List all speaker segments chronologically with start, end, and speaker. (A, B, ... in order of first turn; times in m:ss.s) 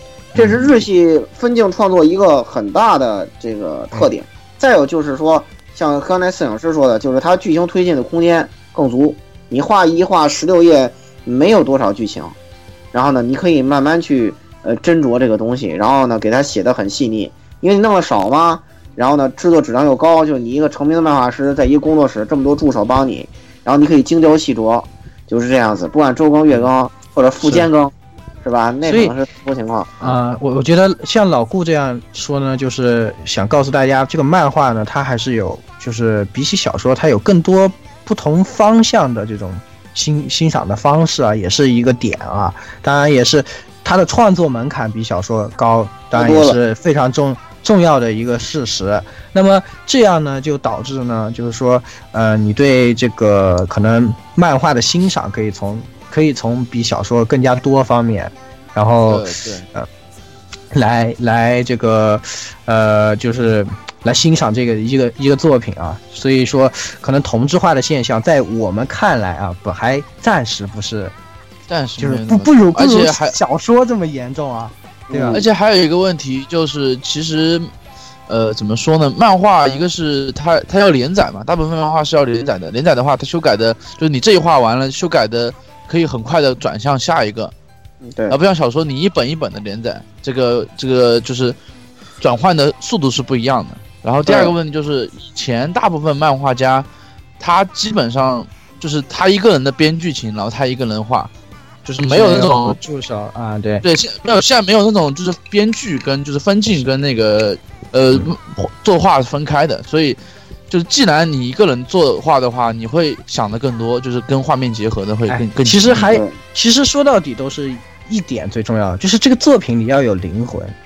0:00.4-0:00.8 A
0:00.4-0:12.4 B
0:12.9-0:30.2 B
0:27.4-0:27.7 A
0:28.8-0:29.1 A
0:30.0-0:59.9 A
0:46.1-0:46.6 B
0:59.1-0:59.7 C
1:00.7-1:11.1 A
1:11.7-1:13.4 C
1:12.0-1:15.5 A
1:15.1-1:15.5 B
1:15.3-1:17.7 C
1:18.3-1:27.5 C
1:28.0-1:28.4 B
1:28.3-1:31.6 C
1:32.2-1:36.9 C
1:34.2-1:34.6 B
1:37.4-1:41.3 C
1:41.9-1:43.8 A
1:42.0-1:42.8 C
1:43.8-1:50.2 C
1:50.7-1:56.1 C
1:55.3-2:00.8 A
1:56.1-1:56.4 B